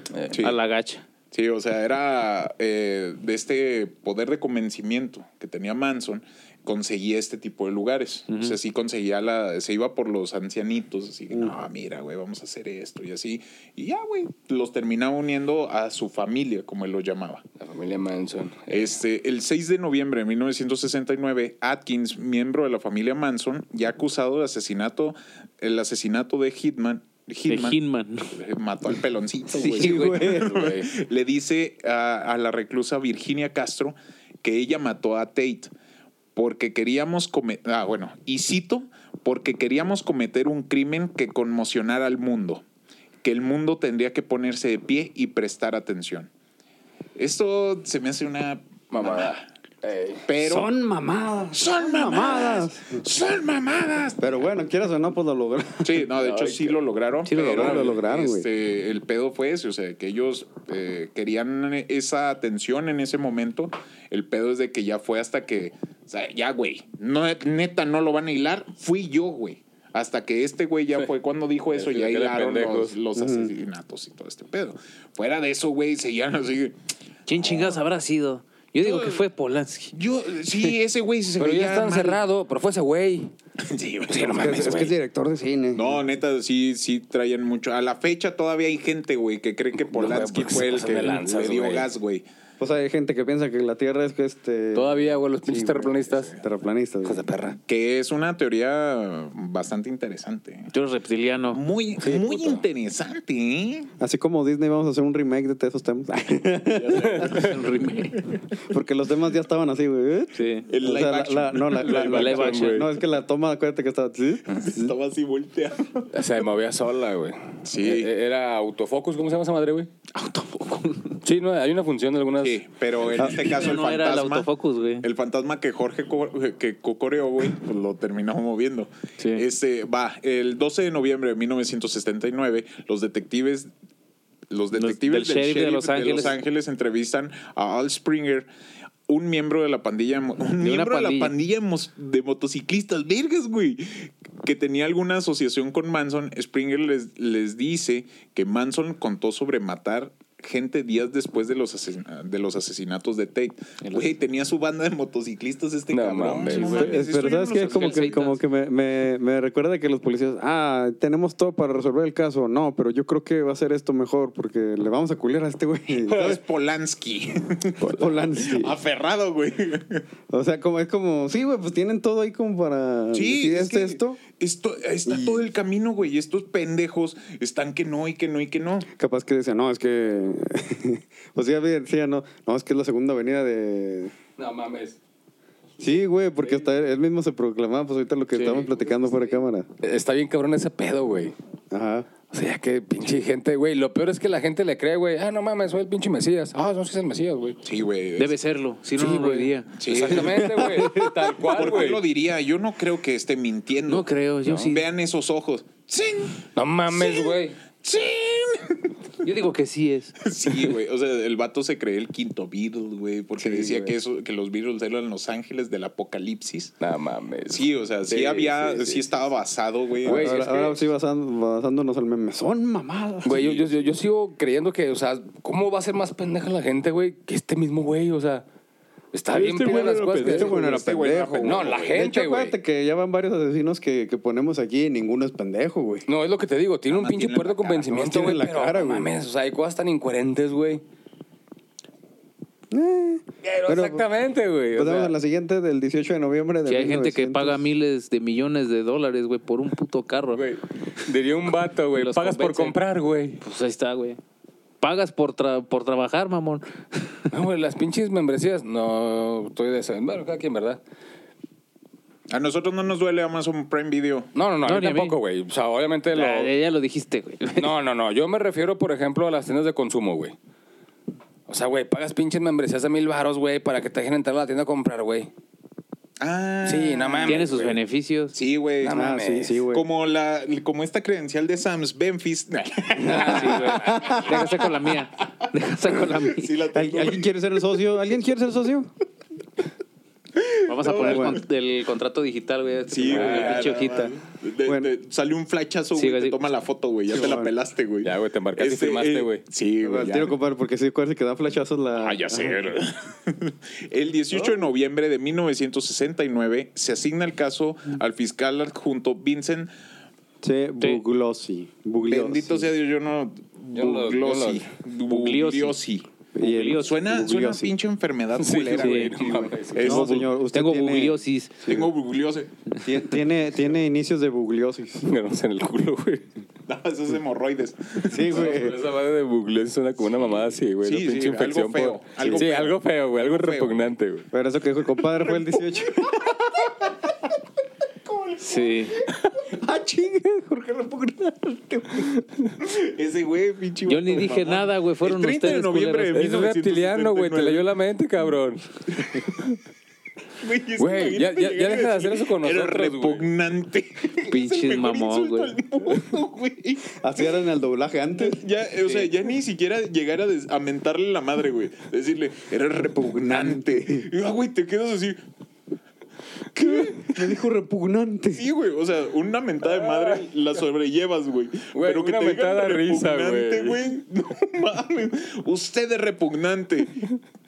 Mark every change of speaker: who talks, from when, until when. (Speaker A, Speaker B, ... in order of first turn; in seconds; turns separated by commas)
Speaker A: 0.1-0.4, Speaker B: 0.3-0.6, Speaker C: 0.4-1.0, Speaker B: 1.3-17.4, Speaker C: 8.3-8.6, Speaker A: 17.6-19.0, Speaker B: 18.7-27.8, Speaker C: 27.5-28.3, Speaker B: 28.3-35.7, Speaker C: 29.5-30.5, Speaker D: 29.5-30.5, Speaker A: 29.9-30.9, Speaker B: 36.3-42.6, Speaker B: 43.2-46.3, Speaker B: 47.1-49.5, Speaker A: 48.9-50.3, Speaker B: 50.3-50.7, Speaker D: 50.4-53.0, Speaker B: 51.5-54.2, Speaker D: 54.2-56.0, Speaker B: 55.8-76.8, Speaker A: 56.2-56.8, Speaker C: 57.2-58.0, Speaker D: 57.4-58.5, Speaker A: 71.7-73.0, Speaker D: 73.1-73.5, Speaker C: 77.3-79.9, Speaker B: 77.4-77.8, Speaker B: 78.8-79.2, Speaker B: 79.9-82.2, Speaker A: 81.4-83.3, Speaker B: 83.6-84.9, Speaker A: 84.1-84.9, Speaker D: 84.1-85.9, Speaker B: 85.7-92.2, Speaker A: 89.8-91.9, Speaker D: 92.6-97.3, Speaker A: 94.7-96.4, Speaker A: 97.0-97.6, Speaker B: 97.6-100.7, Speaker C: 100.7-101.6, Speaker B: 101.5-103.9, Speaker A: 102.0-102.6, Speaker D: 104.0-107.2, Speaker B: 106.7-108.1, Speaker A: 107.1-107.5, Speaker C: 107.2-108.3, Speaker D: 108.7-114.9, Speaker C: 110.3-110.7, Speaker B: 110.7-112.5, Speaker A: 111.8-112.9, Speaker C: 112.0-112.8, Speaker B: 114.5-116.1, Speaker A: 116.1-119.9, Speaker B: 117.6-118.1, Speaker C: 120.1-121.2, Speaker A: 121.2-123.2, Speaker B: 122.4-124.5, Speaker C: 123.2-125.1, Speaker B: 125.0-133.7, Speaker C: 129.2-129.4, Speaker B: 134.5-138.5, Speaker C: 134.7-136.4, Speaker B: 139.1-158.2, Speaker C: 140.6-141.3, Speaker C: 153.8-154.1, Speaker A: 155.9-156.9, Speaker C: 156.4-157.0, Speaker D: 156.7-166.4, Speaker C: 157.6-158.4, Speaker B: 166.0-170.0, Speaker D: 167.8-168.8, Speaker D: 170.3-174.2, Speaker B: 173.1-178.9, Speaker D: 175.1-175.4, Speaker D: 178.9-184.1, Speaker A: 184.4-185.0, Speaker D: 185.8-189.7, Speaker A: 186.4-186.7, Speaker A: 188.3-191.3, Speaker D: 191.7-192.1, Speaker A: 192.3-197.6, Speaker B: 197.6-198.4, Speaker C: 198.2-201.7, Speaker B: 199.0-200.6, Speaker A: 199.8-202.0, Speaker B: 201.4-208.9, Speaker C: 203.9-204.8, Speaker A: 206.5-207.6, Speaker C: 209.2-210.2, Speaker B: 210.2-216.7, Speaker D: 213.4-213.9, Speaker A: 216.8-219.2, Speaker B: 217.4-220.8, Speaker A: 220.0-220.4, Speaker D: 220.0-223.7, Speaker A: 223.2-228.4, Speaker A: 229.1-230.6, Speaker B: 229.3-232.0, Speaker D: 229.7-236.1, Speaker A: 231.4-232.5, Speaker A: 236.1-240.8, Speaker B: 236.9-238.2, Speaker D: 237.9-239.1, Speaker D: 242.7-244.0, Speaker A: 243.4-245.1, Speaker D: 244.7-247.6, Speaker C: 246.7-250.4, Speaker A: 250.3-253.4, Speaker C: 251.9-252.8, Speaker C: 253.4-254.2, Speaker C: 254.8-257.3, Speaker A: 257.3-260.8, Speaker B: 262.3-264.3, Speaker A: 264.3-266.5, Speaker C: 264.6-265.1, Speaker C: 266.1-267.7, Speaker A: 267.6-270.3, Speaker A: 271.5-275.3, Speaker B: 276.2-277.8, Speaker A: 276.6-277.7, Speaker C: 277.2-278.4, Speaker B: 278.3-279.1, Speaker A: 278.8-279.6, Speaker D: 278.9-279.8, Speaker B: 279.7-284.7, Speaker A: 283.0-284.1, Speaker C: 283.0-286.5, Speaker D: 283.8-284.4, Speaker B: 286.2-287.3, Speaker D: 286.7-288.9, Speaker B: 290.4-291.4, Speaker C: 290.7-294.1, Speaker D: 291.0-291.4, Speaker B: 292.9-300.4, Speaker A: 293.1-293.7, Speaker D: 293.2-294.9, Speaker C: 295.9-296.4, Speaker D: 297.1-297.5, Speaker A: 298.0-299.4, Speaker D: 299.8-302.6, Speaker B: 302.0-309.7, Speaker D: 310.4-312.7, Speaker B: 312.1-316.1, Speaker A: 313.7-314.7, Speaker C: 315.1-315.8, Speaker D: 316.3-317.7, Speaker C: 316.4-316.9, Speaker B: 316.7-320.3, Speaker A: 318.4-320.1, Speaker C: 318.8-319.1, Speaker D: 319.8-321.9, Speaker C: 320.4-321.6, Speaker B: 321.6-322.5, Speaker D: 322.8-325.1, Speaker A: 325.0-326.3, Speaker B: 326.7-328.5, Speaker D: 328.1-328.8, Speaker A: 328.2-334.3, Speaker B: 330.8-333.9, Speaker D: 334.3-336.2, Speaker B: 335.0-337.3, Speaker B: 338.0-347.7, Speaker C: 338.4-339.0, Speaker C: 343.9-346.2, Speaker A: 346.1-349.6, Speaker B: 350.4-357.2, Speaker A: 350.8-353.3, Speaker C: 354.2-355.5, Speaker D: 356.9-358.4, Speaker B: 358.1-365.2, Speaker D: 363.1-364.1, Speaker B: 366.5-367.3, Speaker D: 366.6-368.4, Speaker B: 368.4-377.1, Speaker A: 369.6-370.3, Speaker A: 371.7-373.9